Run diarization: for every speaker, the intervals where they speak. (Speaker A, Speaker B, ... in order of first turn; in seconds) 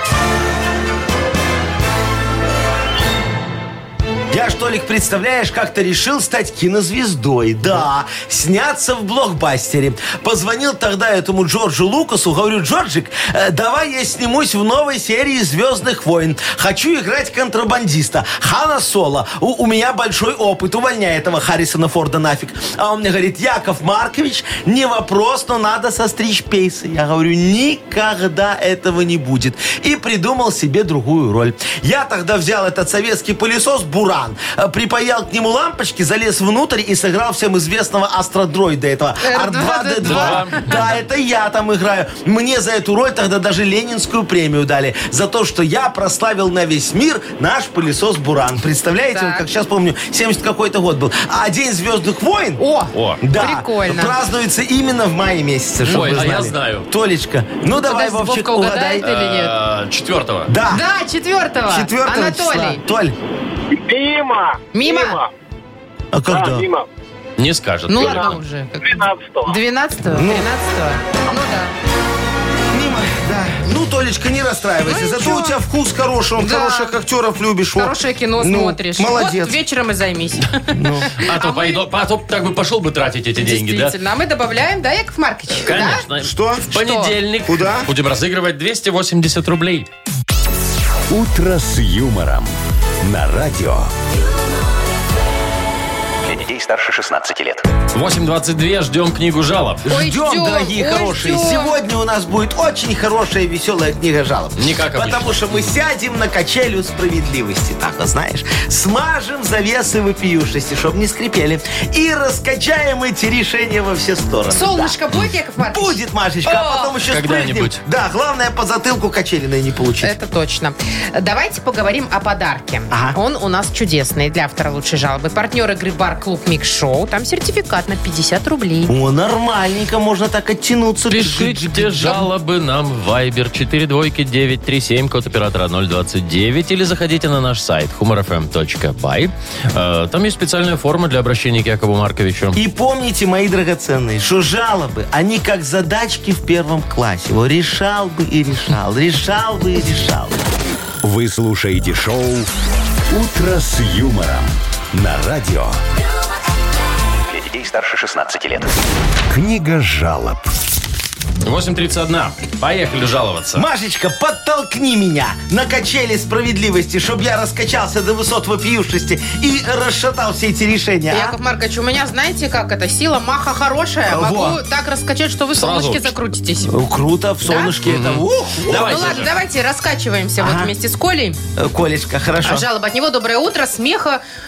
Speaker A: 4.3-52.6, 53.2-59.1, 60.5-60.8, 61.7-63.1, 66.1-66.7, 70.0-70.5, 72.7-79.6, 80.7-81.1, 86.2-86.7, 87.4-87.9, 99.8-115.0, 115.6-120.1, 122.9-123.2, 128.9-132.3, 142.5-150.4, 163.5-171.4, 174.1-174.6, 176.7-179.2, 180.4-180.7, 181.5-182.7
Speaker B: 39.2-40.8, 49.1-49.4, 52.6-54.1, 57.7-59.5, 60.7-62.8, 64.7-65.2, 67.9-71.7, 74.8-75.6, 76.4-77.0, 77.8-81.8, 83.4-86.0, 86.7-87.1, 99.9-101.8, 114.5-116.9, 120.0-128.9, 171.1-176.7, 177.4-177.7, 178.7-181.4, 182.4-184.2
Speaker C: 40.0-40.9, 52.9-53.2, 55.9-56.9, 59.0-60.5, 67.4-68.4, 81.2-84.0, 85.6-89.9, 97.9-99.9, 104.6-105.7, 117.1-117.8, 131.1-142.6, 161.4-163.6, 175.6-176.1, 177.8-179.3
Speaker D: 63.7-65.3, 66.3-66.9, 68.0-69.6
Speaker E: 91.1-93.9, 151.0-152.5, 153.1-155.8, 159.3-160.5
Speaker F: 96.2-97.7, 157.3-158.7